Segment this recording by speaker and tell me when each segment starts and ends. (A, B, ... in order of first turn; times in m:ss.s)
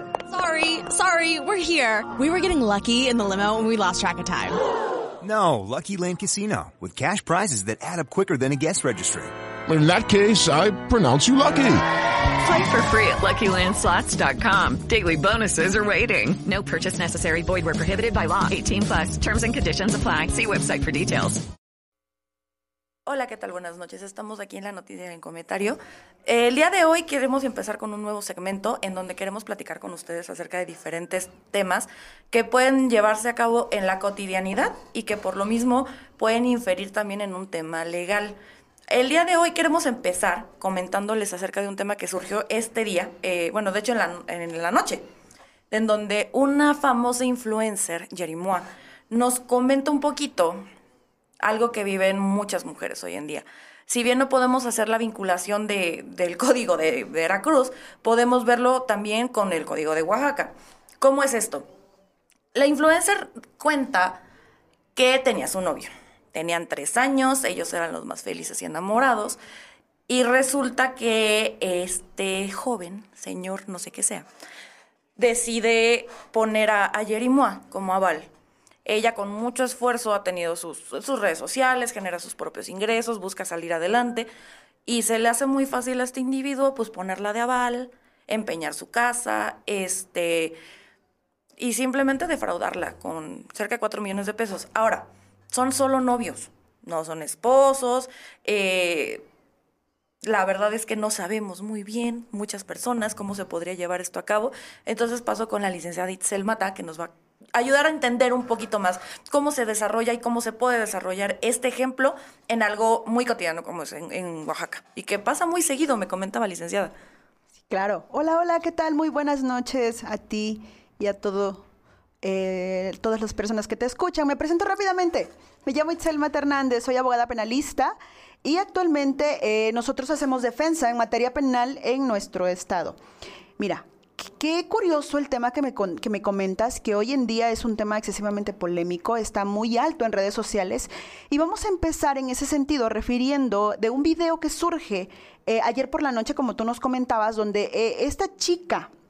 0:00.3-0:04.6 A
0:05.2-0:09.3 B
0:09.7-0:11.8 C
0:12.4-0:21.4 D
0:23.1-0:38.4 E
0:38.9-0:45.0 E
0:45.7-0:50.6 E
0:51.4-1:01.7 E
1:02.6-1:04.2 E
1:05.0-1:09.4 E
1:10.1-1:14.3 E
1:15.2-1:18.3 E
1:18.9-1:24.3 E
1:24.9-1:30.6 E
1:31.6-1:39.2 E
1:40.2-1:56.9 E
1:57.7-2:01.6 F
2:02.2-2:13.0 F
2:13.6-2:28.9 F